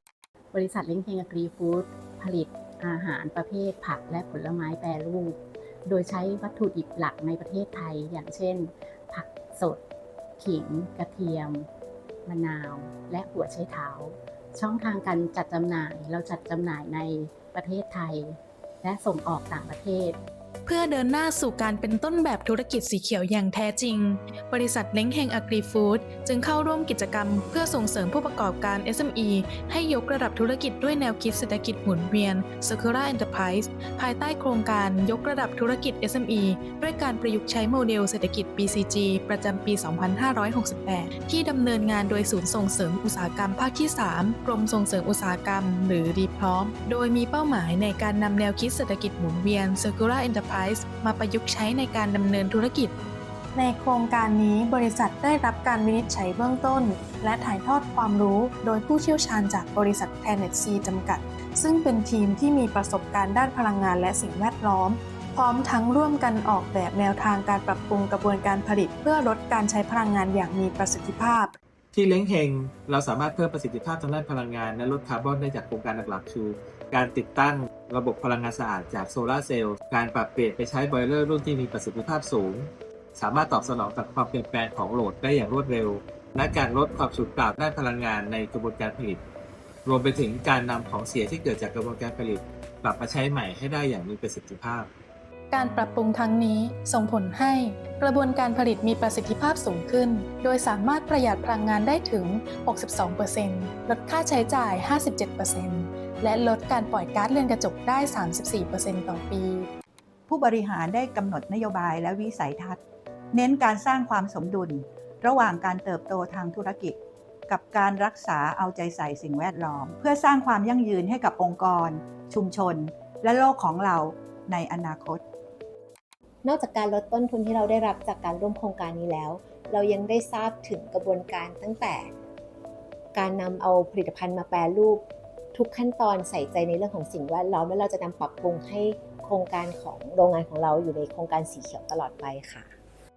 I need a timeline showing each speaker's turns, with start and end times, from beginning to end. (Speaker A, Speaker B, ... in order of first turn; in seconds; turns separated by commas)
Speaker A: 0.5-9.8, Speaker A: 10.4-11.7, Speaker A: 12.3-20.2, Speaker B: 20.7-52.9, Speaker B: 53.5-71.5, Speaker C: 71.9-89.2, Speaker C: 89.8-94.9, Speaker B: 95.5-109.7, Speaker D: 110.3-112.8, Speaker D: 113.3-125.2, Speaker E: 126.4-132.1, Speaker E: 133.2-142.7